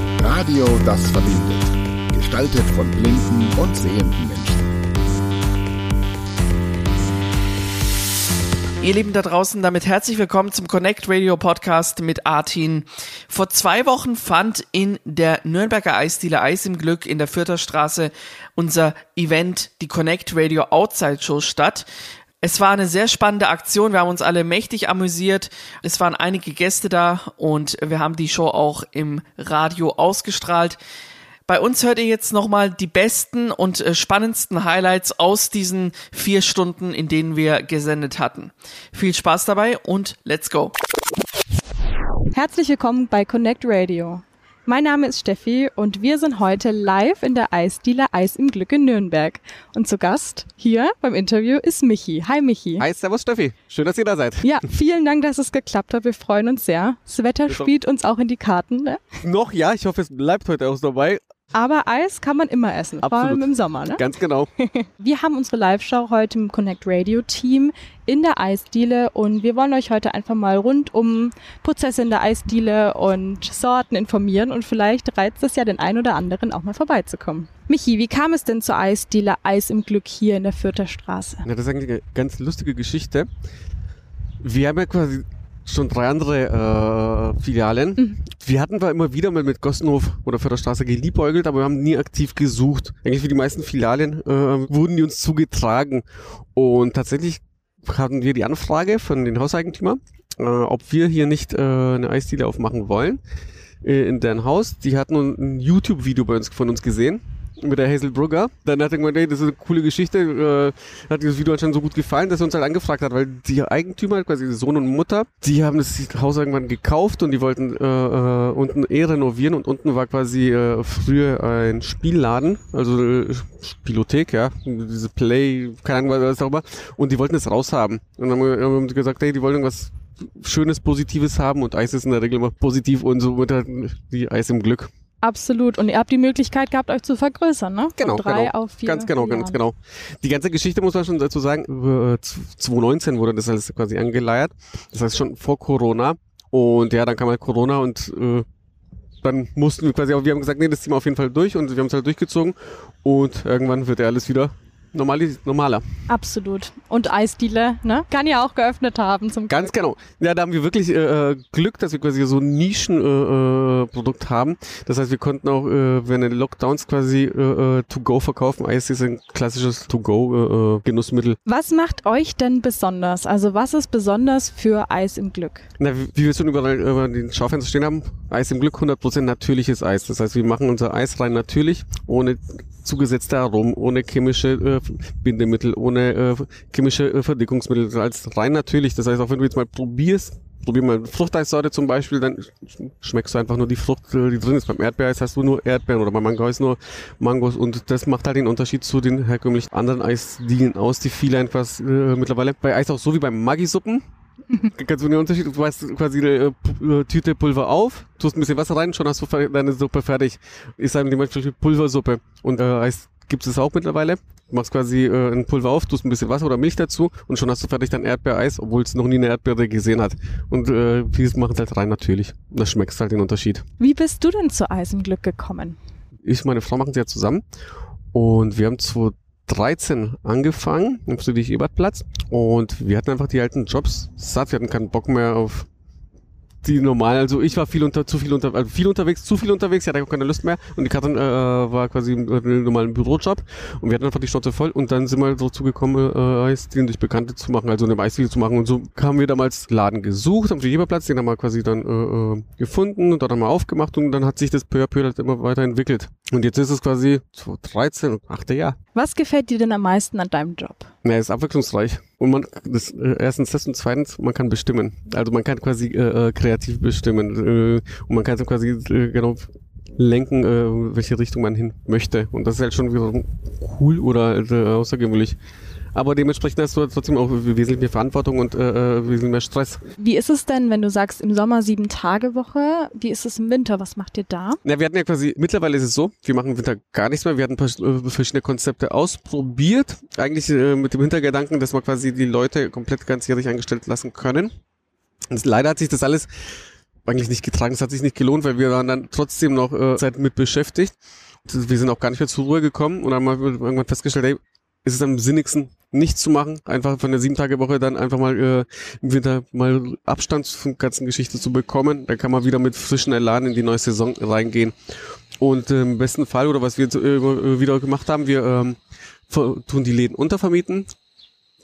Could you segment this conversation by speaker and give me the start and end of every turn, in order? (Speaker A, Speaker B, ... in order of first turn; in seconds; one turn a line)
Speaker A: 0.2-4.7
Speaker B: 8.8-21.9
Speaker B: 22.4-30.8
Speaker B: 31.5-40.7
Speaker C: 42.3-52.8
Speaker D: 52.8-54.6
Speaker C: 54.4-59.0
Speaker D: 59.2-61.2
Speaker C: 61.5-64.0
Speaker D: 63.0-64.5
Speaker C: 64.6-81.5
Speaker D: 81.5-83.3
Speaker D: 84.4-103.2
Speaker D: 103.8-134.9
Speaker C: 135.2-139.6
Speaker D: 138.0-148.4
Speaker D: 149.2-155.8
Speaker C: 156.1-159.7
Speaker D: 159.5-171.4
Speaker C: 171.5-175.7
Speaker D: 175.8-204.0
Speaker D: 204.7-223.6
Speaker C: 223.8-225.8
Speaker D: 226.2-227.4
Speaker D: 228.1-235.7
Speaker D: 236.6-258.8
Speaker C: 258.9-260.9
Speaker D: 261.0-275.4
Speaker D: 275.9-279.8
Speaker C: 280.0-284.6
Speaker D: 284.6-294.5
Speaker D: 295.3-296.3
Speaker D: 297.1-300.9
Speaker D: 301.5-314.7
Speaker D: 315.4-318.8
Speaker D: 319.3-320.9